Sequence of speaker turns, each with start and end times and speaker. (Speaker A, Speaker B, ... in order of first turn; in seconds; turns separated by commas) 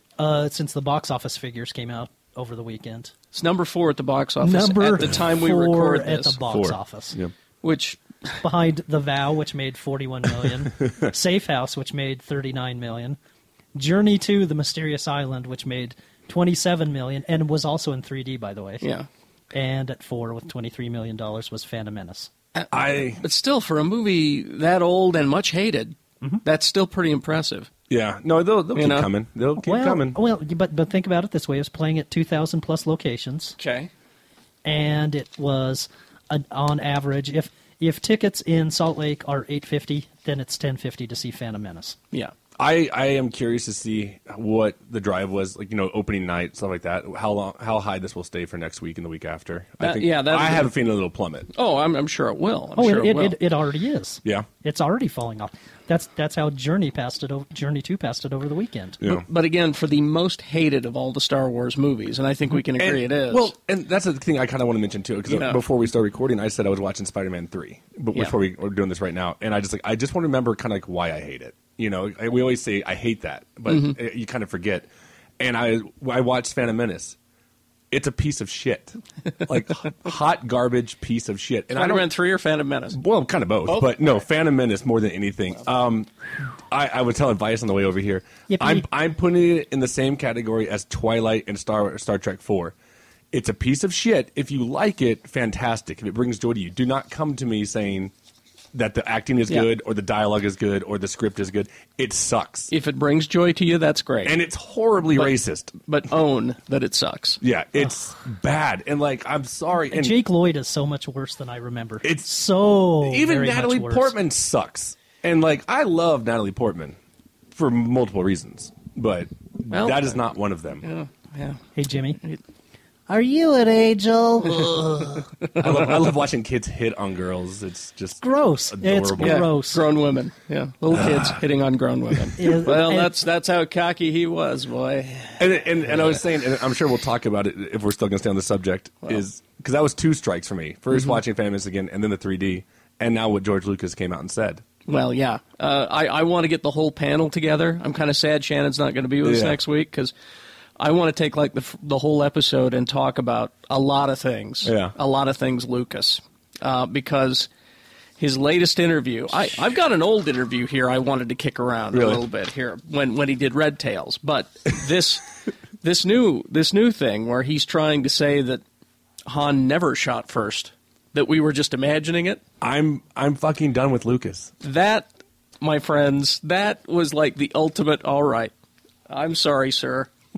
Speaker A: 0.2-3.1, Speaker B: 3.3-6.4, Speaker A: 4.4-7.2, Speaker C: 6.5-7.3, Speaker B: 7.6-8.4, Speaker A: 8.4-13.2, Speaker A: 13.8-18.9, Speaker B: 18.8-19.1, Speaker A: 19.5-22.3, Speaker B: 22.6-27.7, Speaker C: 22.7-23.2, Speaker C: 27.9-30.2, Speaker B: 28.7-29.1, Speaker A: 29.6-33.6, Speaker B: 33.6-33.9, Speaker A: 34.6-42.0, Speaker C: 42.6-51.5, Speaker B: 49.8-50.7, Speaker B: 51.5-53.4, Speaker A: 52.8-59.0, Speaker B: 59.0-63.5, Speaker C: 62.8-74.9, Speaker B: 65.3-65.6, Speaker B: 73.7-74.0, Speaker C: 75.4-77.2, Speaker C: 77.9-82.1, Speaker B: 81.7-83.0, Speaker C: 82.9-86.1, Speaker B: 83.7-84.0, Speaker C: 86.7-92.8, Speaker A: 88.5-88.8, Speaker C: 93.3-98.1, Speaker C: 98.7-102.7, Speaker B: 102.7-104.4, Speaker C: 104.2-105.8, Speaker B: 105.9-107.4, Speaker C: 107.4-110.2, Speaker A: 109.9-114.2, Speaker C: 112.0-112.3, Speaker C: 113.0-117.0, Speaker C: 117.5-120.8, Speaker B: 119.7-120.2, Speaker B: 120.8-121.6, Speaker A: 121.8-122.2, Speaker A: 123.1-125.3, Speaker C: 125.6-129.5, Speaker A: 128.2-129.8, Speaker B: 129.2-136.2, Speaker C: 131.0-131.3, Speaker A: 132.4-133.1, Speaker C: 135.4-144.6, Speaker B: 144.9-150.1, Speaker C: 149.2-149.6, Speaker B: 150.8-157.5, Speaker C: 154.7-154.9, Speaker B: 158.2-165.3, Speaker C: 161.9-162.2, Speaker B: 165.8-168.6, Speaker B: 169.3-172.4, Speaker C: 172.6-174.5, Speaker B: 174.6-175.1, Speaker B: 175.6-178.5, Speaker B: 179.1-180.1